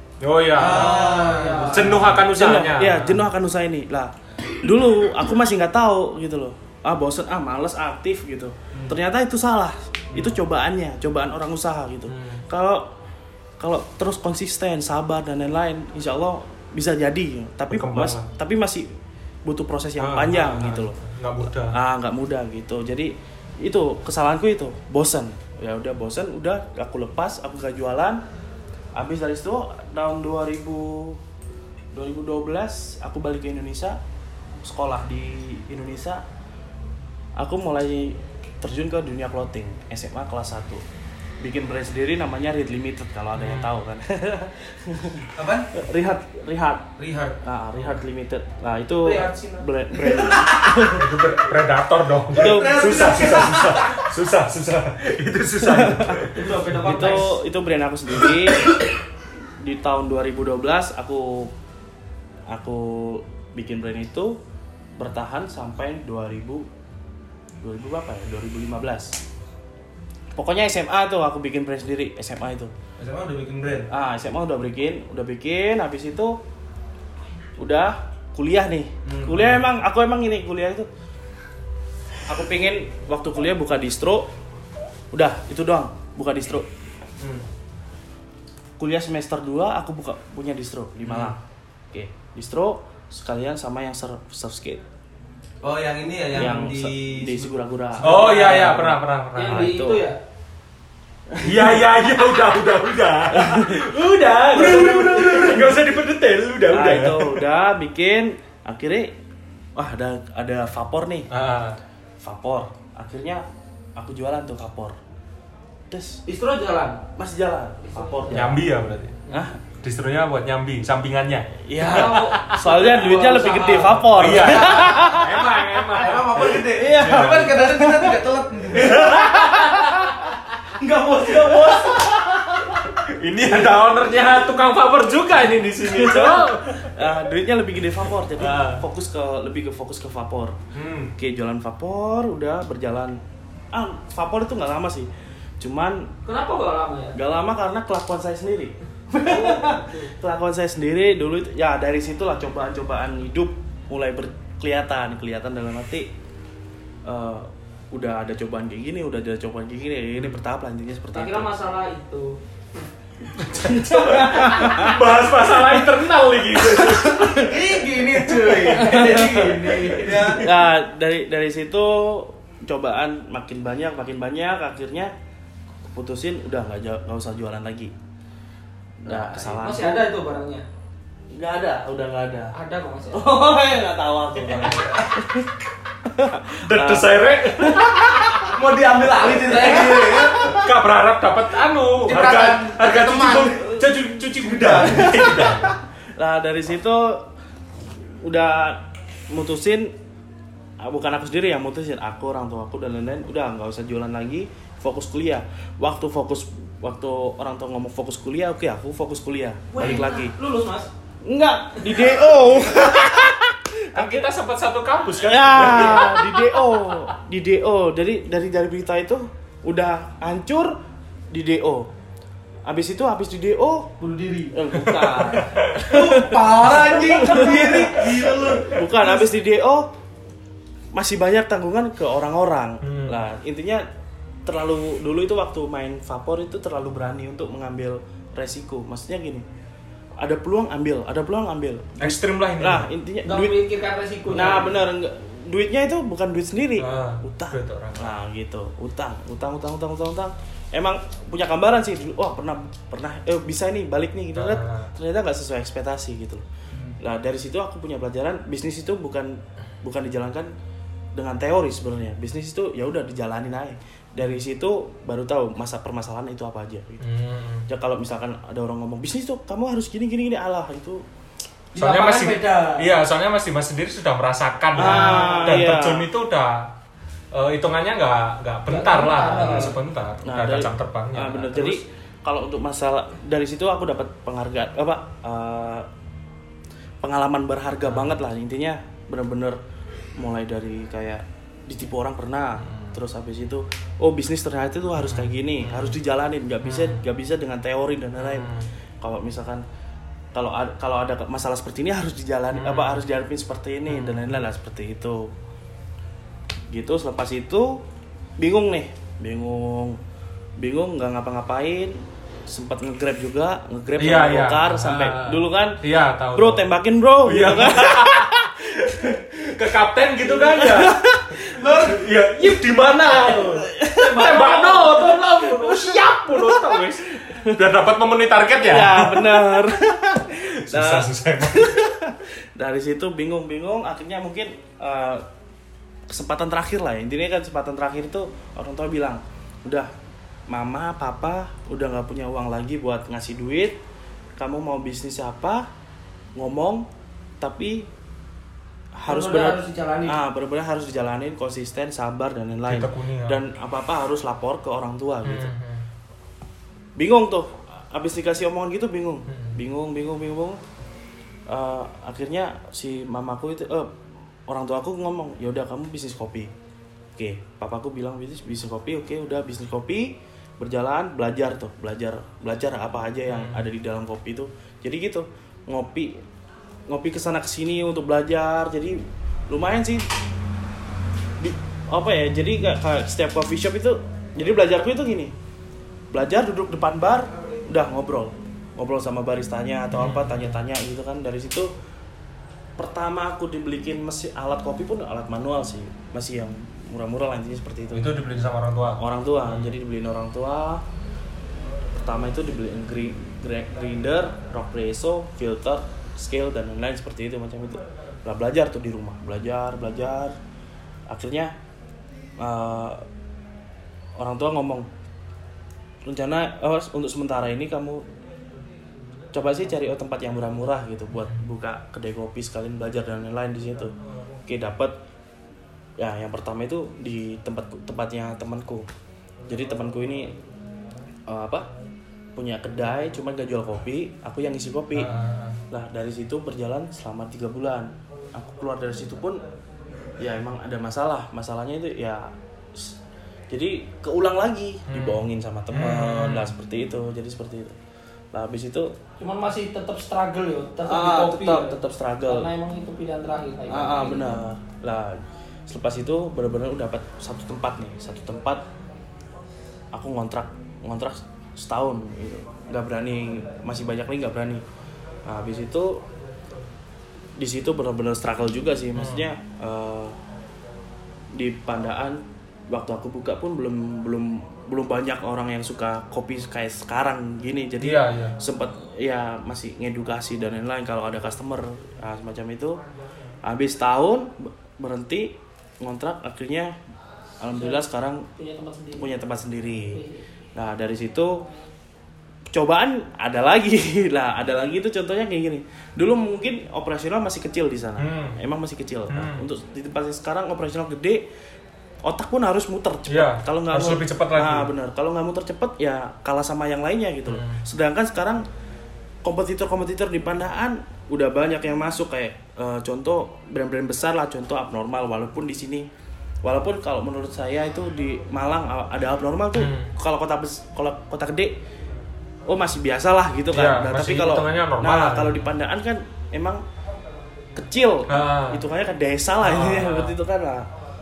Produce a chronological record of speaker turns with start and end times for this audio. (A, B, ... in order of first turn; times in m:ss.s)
0:00.2-0:03.2 A
0:00.5-0:02.2 B
0:00.6-0:02.1 C
0:02.3-0:12.9 D
0:12.1-0:12.4 A
0:13.6-0:18.9 D
0:17.7-0:18.3 A
0:19.4-0:28.2 D
0:20.0-0:21.8 A
0:28.9-0:31.2 D
0:31.9-0:34.0 D
0:34.6-0:36.2 D
0:37.4-0:40.8 D
0:41.4-0:46.9 D
0:43.4-0:43.7 A
0:45.3-0:45.7 B
0:47.0-0:47.4 B
0:47.4-0:51.1 D
0:49.0-0:50.4 C
0:50.7-0:57.2 A
0:52.3-0:53.5 D
0:52.4-0:53.8 B
0:55.6-0:58.8 D
0:56.3-0:57.3 C
0:58.2-0:58.8 A
0:59.6-1:01.5 D
1:02.5-1:04.4 D
1:05.0-1:06.7 D
1:07.6-1:09.2 D
1:10.3-1:12.7 D
1:13.0-1:13.9 B
1:13.9-1:16.4 D
1:17.6-1:20.9 D
1:19.0-1:19.5 B
1:22.2-1:24.3 D
1:25.1-1:26.7 D
1:27.2-1:27.4 B
1:28.8-1:31.4 D
1:31.0-1:31.4 A
1:31.9-1:34.8 D
1:35.6-1:37.5 B
1:36.3-1:40.1 D
1:38.0-1:39.7 A
1:38.0-1:38.8 C
1:39.3-1:40.2 C
1:41.3-1:41.8 D
1:41.4-1:47.4 A
1:43.3-1:43.9 D
1:44.5-1:45.8 D
1:46.7-1:49.2 D
1:49.8-1:51.3 D
1:51.3-1:51.8 A
1:52.2-1:53.4 D
1:54.0-1:55.0 D
1:55.9-1:56.2 D
1:56.2-1:57.0 C
1:57.1-1:58.6 D
1:57.8-1:58.4 C
1:58.3-1:59.2 A
1:59.3-1:59.6 D
1:59.8-2:07.6 A
2:01.6-2:05.5 D
2:01.8-2:04.9 C
2:05.9-2:09.1 B
2:06.4-2:08.2 D
2:08.7-2:10.2 D
2:08.9-2:09.3 A
2:09.4-2:09.9 C
2:10.8-2:12.8 D
2:11.2-2:11.9 C
2:12.9-2:16.9 A
2:15.8-2:20.6 D
2:18.4-2:18.8 A
2:20.7-2:21.1 A
2:21.2-2:23.2 D
2:23.7-2:26.1 D
2:26.2-2:27.2 C
2:27.1-2:36.1 D
2:29.2-2:30.0 C
2:37.0-2:41.5 D
2:41.1-2:42.4 C
2:43.4-2:45.7 D
2:43.4-2:50.5 A
2:44.2-2:44.9 C
2:46.8-2:47.5 D
2:47.2-2:50.5 B
2:48.7-2:49.9 C
2:48.7-2:49.3 D
2:50.4-2:55.1 D
2:55.9-2:57.9 D
2:59.0-3:00.0 D
2:59.1-3:00.6 C
3:01.3-3:02.5 D
3:02.5-3:03.3 C
3:03.1-3:08.3 D
3:04.5-3:05.0 A
3:06.6-3:08.4 A
3:08.4-3:10.6 B
3:09.3-3:10.3 C
3:09.8-3:15.7 A
3:12.0-3:13.7 B
3:14.6-3:17.3 D
3:18.0-3:19.9 D
3:20.8-3:30.3 D
3:29.7-3:30.9 C
3:31.2-3:34.3 D
3:33.9-3:36.4 A
3:35.2-3:40.8 D
3:35.8-3:36.2 C
3:36.7-3:37.0 C
3:41.3-3:41.9 D
3:42.6-3:44.0 D
3:44.0-3:44.5 C
3:44.5-3:49.9 D
3:44.8-3:49.0 A
3:45.9-3:48.7 B
3:50.9-3:53.8 D
3:52.8-3:53.2 A
3:54.4-3:59.4 D
4:00.2-4:03.6 D
4:02.0-4:02.9 A
4:03.2-4:04.8 C
4:04.3-4:16.4 D
4:06.8-4:08.1 A
4:14.3-4:14.9 A
4:17.0-4:20.5 D
4:21.1-4:27.0 D
4:27.0-4:27.6 A
4:27.7-4:31.0 D
4:31.7-4:32.8 C
4:31.8-4:36.7 A
4:34.7-4:36.0 D
4:34.8-4:35.2 C
4:37.3-4:41.8 A
4:38.7-4:39.8 C
4:39.4-4:45.9 D
4:47.0-4:49.6 D
4:47.9-4:48.1 A
4:50.2-4:58.5 D
4:52.6-4:53.0 A
4:55.0-4:56.0 A
4:56.6-4:57.0 A
4:58.2-4:58.6 A
4:59.0-4:59.6 D
5:00.3-5:05.3 D
5:02.5-5:03.0 A
5:03.9-5:04.4 A
5:06.7-5:07.8 D
5:08.4-5:10.0 D
5:10.6-5:15.8 D
5:14.0-5:16.7 A
5:16.3-5:19.4 D
5:17.2-5:29.7 A
5:20.2-5:21.4 D
5:21.5-5:26.6 C
5:23.8-5:24.4 D
5:27.2-5:27.6 D
5:28.6-5:35.2 D
5:30.6-5:31.8 A
5:36.1-5:39.9 D
5:40.5-5:43.8 D
5:44.4-5:45.7 D
5:46.4-5:46.8 D
5:47.4-5:47.9 D
5:49.0-5:55.5 D
5:49.1-5:50.2 C
5:52.7-5:53.4 A
5:55.2-5:55.8 A
5:57.0-6:00.6 D
5:59.3-5:59.6 A
6:01.5-6:04.0 D
6:04.5-6:06.5 D
6:07.2-6:16.1 D
6:13.3-6:13.6 A
6:16.9-6:20.1 D
6:21.4-6:25.3 D
6:26.1-6:31.7 D
6:29.9-6:30.5 A
6:32.8-6:38.1 D
6:37.9-6:39.7 A
6:39.0-6:40.8 D
6:41.9-6:50.3 D
6:51.1-6:51.5 D
6:52.4-6:53.0 D
6:54.2-6:54.9 D
6:56.0-6:58.0 D
6:59.3-7:03.9 D
7:04.5-7:05.0 D
7:06.0-7:08.9 D
7:09.5-7:10.3 D
7:11.3-7:11.7 D
7:12.4-7:15.1 D
7:14.9-7:15.6 A
7:15.7-7:19.4 D
7:20.2-7:23.0 D
7:23.5-7:27.8 D
7:24.9-7:26.5 A
7:28.3-7:29.0 D
7:29.2-7:34.4 C
7:30.8-7:32.5 D
7:33.7-7:38.6 D
7:39.9-7:44.6 D
7:45.3-7:46.0 D
7:47.4-7:50.2 D
7:49.0-7:49.3 A
7:51.3-8:02.8 D
7:57.8-7:58.4 A
8:03.4-8:06.7 D
8:07.4-8:08.3 D
8:07.5-8:07.8 C
8:08.4-8:09.1 C
8:08.9-8:10.0 D
8:09.9-8:10.2 C
8:10.5-8:11.4 D
8:12.5-8:21.2 D
8:18.0-8:18.4 A
8:19.1-8:19.4 A
8:22.0-8:28.4 D
8:23.1-8:24.7 A
8:27.3-8:27.6 A
8:29.2-8:35.9 D
8:36.4-8:41.6 D
8:39.5-8:39.9 A
8:42.5-8:46.6 D
8:43.5-8:45.4 A
8:47.5-8:50.7 D
8:48.1-8:48.6 A
8:49.4-8:50.1 A